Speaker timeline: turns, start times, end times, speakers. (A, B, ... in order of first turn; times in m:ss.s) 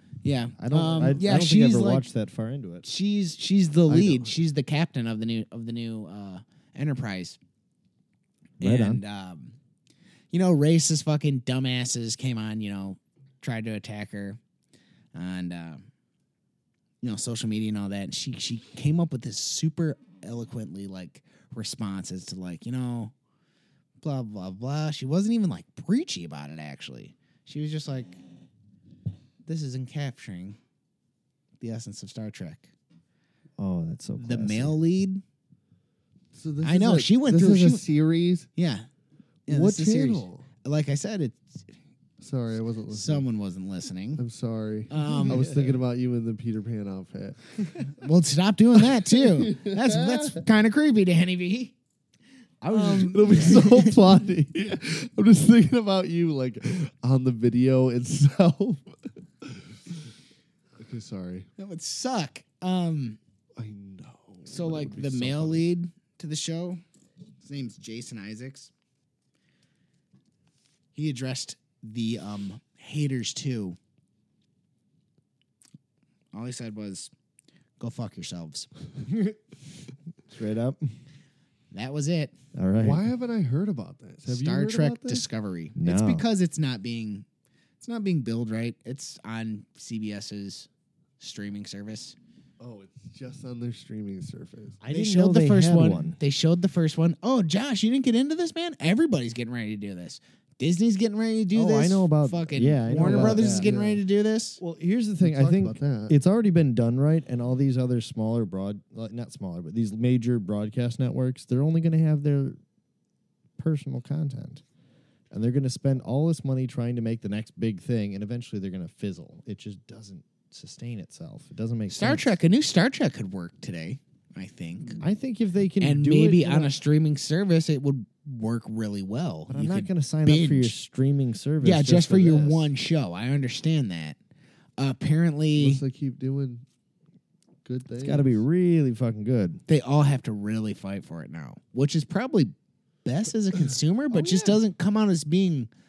0:00.2-0:02.1 A
0:00.6-0:02.9 B
0:02.8-0:07.4 A
0:03.9-0:04.3 C
0:08.6-0:09.0 B
0:08.6-0:09.6 A
0:10.3-0:14.4 A
0:15.1-0:15.9 A
0:17.0-0:23.1 A
0:24.0-0:28.2 A
0:29.5-0:30.6 A
0:31.6-0:32.7 A
0:33.6-0:34.8 B
0:34.2-0:35.2 A
0:36.3-0:38.5 C
0:36.6-0:37.8 A
0:38.6-0:38.9 A
0:39.5-0:40.5 C
0:39.5-0:41.7 A
0:42.2-0:43.2 C
0:42.9-0:44.2 A
0:44.2-0:47.9 C
0:44.9-0:45.4 A
0:45.1-0:45.8 B
0:48.0-0:51.8 A
0:48.8-0:50.4 C
0:52.6-0:54.0 A
0:52.7-1:00.0 C
0:53.3-0:53.6 B
1:00.8-1:01.5 C
1:01.6-1:03.2 A
1:03.6-1:05.7 C
1:04.4-1:06.8 A
1:07.4-1:08.7 A
1:10.9-1:13.8 A
1:16.3-1:17.1 A
1:17.8-1:18.7 A
1:19.1-1:19.4 B
1:20.3-1:20.9 B
1:21.7-1:22.4 A
1:22.6-1:23.0 B
1:22.8-1:25.2 C
1:24.3-1:27.2 A
1:25.8-1:26.2 B
1:27.8-1:32.2 A
1:32.6-1:34.8 C
1:34.8-1:36.2 B
1:34.9-1:44.6 A
1:41.5-1:43.7 B
1:42.9-1:44.0 C
1:44.6-1:52.6 B
1:45.2-1:46.2 C
1:53.6-1:54.6 B
1:55.3-2:02.4 B
2:01.9-2:05.0 A
2:05.0-2:06.8 B
2:05.8-2:10.7 A
2:09.5-2:12.7 B
2:11.6-2:14.2 A
2:14.8-2:15.8 A
2:15.6-2:16.6 C
2:17.6-2:18.4 C
2:18.0-2:19.6 B
2:19.7-2:22.5 A
2:23.0-2:25.7 A
2:24.1-2:24.6 C